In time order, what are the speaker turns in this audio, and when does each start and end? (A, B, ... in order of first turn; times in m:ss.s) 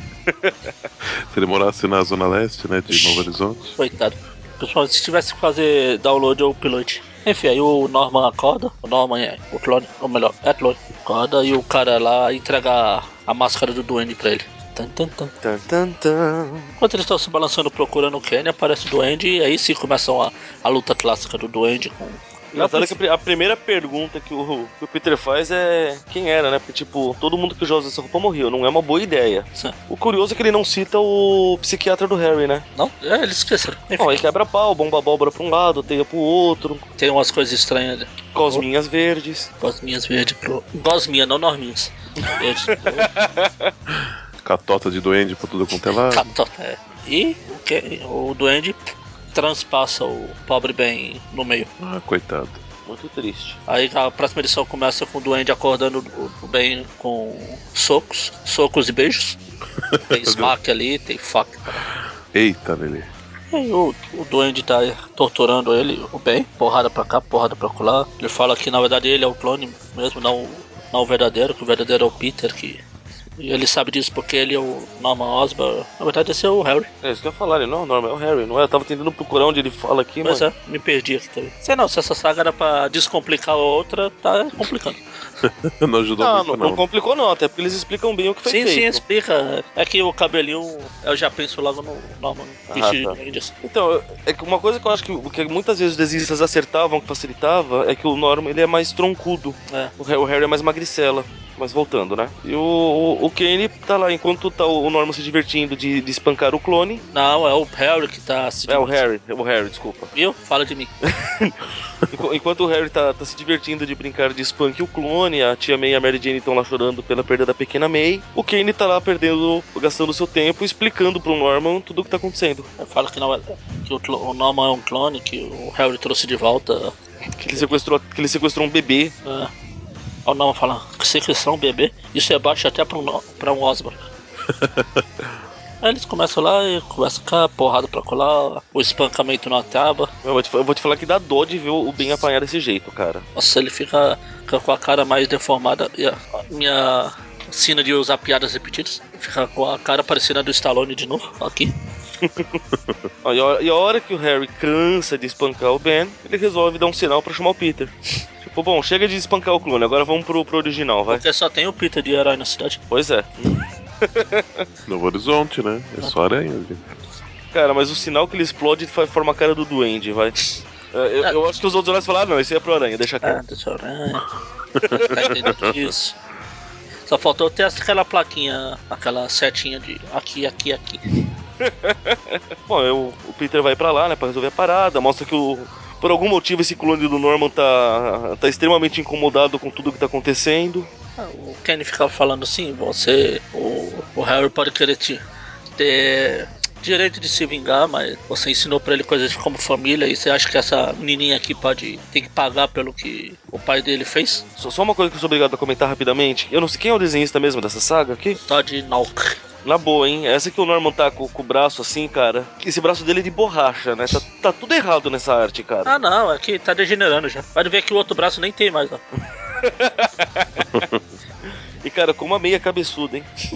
0:00.3-0:00.7 A
0:01.2-0:03.8 B
0:02.9-0:03.2 C
0:03.8-0:15.3 C
0:15.4-0:16.7 A
0:16.8-0:23.0 C
0:22.5-0:32.6 A
0:32.8-0:34.2 C
0:34.0-0:36.8 A
0:37.0-0:38.6 C
0:38.3-0:39.5 A
0:39.6-0:43.1 C
0:42.3-0:43.7 A
0:44.0-0:46.3 B
0:46.1-0:51.7 C
0:51.8-0:52.6 B
0:52.8-0:53.6 A
0:53.7-0:59.4 C
0:59.9-1:00.5 B
1:00.1-1:01.8 C
1:02.3-1:03.1 B
1:03.5-1:12.8 C
1:13.4-1:16.9 C
1:17.0-1:20.4 A
1:20.2-1:25.0 C
1:25.4-1:26.8 B
1:26.2-1:29.0 A
1:28.4-1:33.5 C
1:32.7-1:47.0 A
1:47.1-1:49.0 C
1:48.7-1:50.1 A
1:50.1-1:50.9 C
1:51.0-1:51.5 A
1:52.1-2:02.7 A
2:02.8-2:07.7 C
2:07.4-2:09.1 A
2:09.2-2:09.5 C
2:10.2-2:14.0 C
2:14.5-2:15.3 B
2:15.8-2:20.1 C
2:20.2-2:23.2 A
2:23.4-2:31.7 C
2:32.2-2:32.6 A
2:33.2-2:41.2 A
2:41.1-2:42.8 C
2:42.9-2:44.6 A
2:44.9-2:46.8 B
2:47.5-2:53.4 A
2:53.2-2:54.3 C
2:54.9-2:55.3 A
2:54.9-2:56.2 C
2:55.4-2:55.7 B
2:57.1-3:01.0 C
3:01.6-3:10.9 A
3:11.2-3:15.2 C
3:15.8-3:24.4 C
3:24.6-3:28.4 A
3:28.4-3:29.4 C
3:29.6-3:35.9 A
3:35.8-3:39.0 C
3:39.6-3:40.8 A
3:40.7-3:41.0 B
3:41.8-3:43.3 A